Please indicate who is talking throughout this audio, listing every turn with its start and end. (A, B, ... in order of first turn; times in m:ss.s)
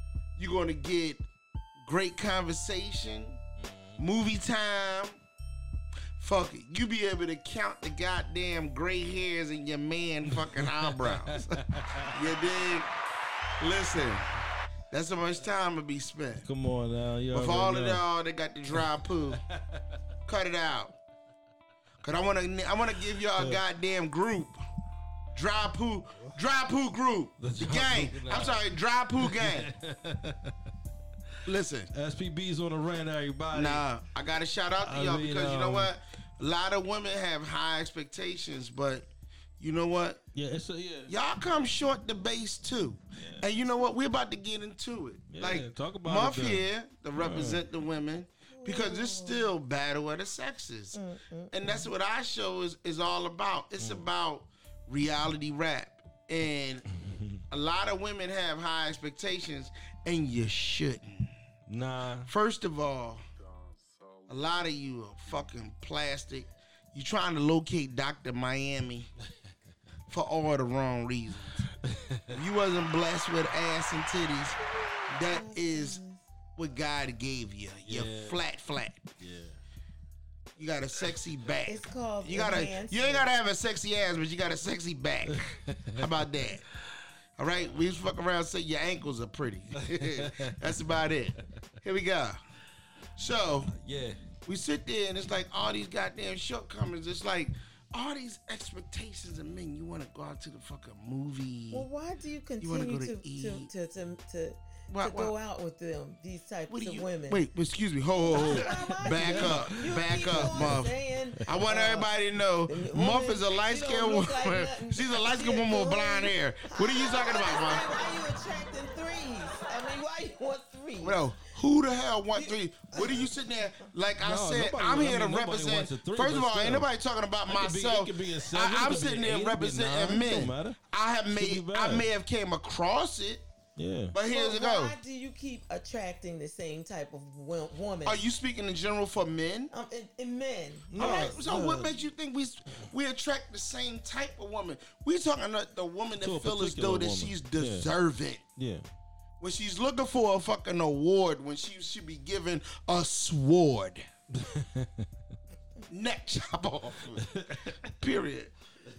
0:00.4-0:01.2 A
0:01.8-0:03.4 A
0:03.6-0:04.0 B
0:04.0-0:05.2 A
0:06.2-0:11.6 A
0:10.3-0:12.1 B
0:12.1-0:12.9 A
0:13.6-0:14.3 A
0:14.9-0:16.4 A
0:16.4-0:18.0 B
0:17.3-0:19.4 A
0:19.3-0:19.8 B
0:20.3-0:21.0 A
0:22.0-0:24.6 A
0:23.4-0:23.6 B
0:25.3-0:29.7 A
0:27.4-0:28.6 B
0:29.2-0:30.5 B
0:31.4-0:31.9 A
0:31.9-0:33.8 B
0:33.5-0:39.1 A
0:34.8-0:35.9 B
0:39.6-0:40.2 A
0:40.3-0:41.1 B
0:41.1-0:51.0 A
0:43.2-0:43.4 B
0:45.3-0:46.6 B
0:47.2-0:47.6 B
0:48.5-0:49.5 C
0:50.9-0:51.9 C
0:51.5-0:56.8 A
0:53.8-0:54.1 B
0:57.5-1:01.3 A
1:01.7-1:02.3 B
1:02.3-1:03.2 A
1:04.3-1:09.1 A
1:10.1-1:11.7 A
1:11.8-1:12.3 B
1:12.3-1:14.6 A
1:14.6-1:16.2 C
1:15.1-1:16.0 A
1:16.6-1:19.1 A
1:17.8-1:18.4 B
1:19.2-1:19.6 B
1:20.6-1:26.6 A
1:21.7-1:23.3 C
1:25.3-1:26.0 B
1:27.4-1:32.4 A
1:29.8-1:30.5 B
1:33.2-1:33.7 A
1:33.7-1:34.2 B
1:34.4-1:41.9 A
1:41.7-1:47.4 C
1:42.6-1:43.7 A
1:44.9-1:45.3 A
1:46.7-1:50.9 A
1:48.3-1:52.1 C
1:48.3-1:50.8 B
1:51.4-1:57.8 A
1:52.7-2:01.3 C
2:01.0-2:13.4 A
2:02.3-2:03.3 C
2:04.2-2:06.9 B
2:07.4-2:10.8 B
2:11.3-2:12.1 B
2:13.8-2:14.1 B
2:14.1-2:15.0 A
2:14.3-2:18.2 C
2:18.0-2:19.7 A
2:19.7-2:21.4 C
2:20.9-2:22.0 B
2:21.0-2:28.4 A
2:26.2-2:27.9 B
2:28.6-2:28.8 B
2:29.4-2:34.0 A
2:34.4-2:35.0 B
2:35.9-2:37.3 A
2:37.2-2:37.9 B
2:37.8-2:38.5 A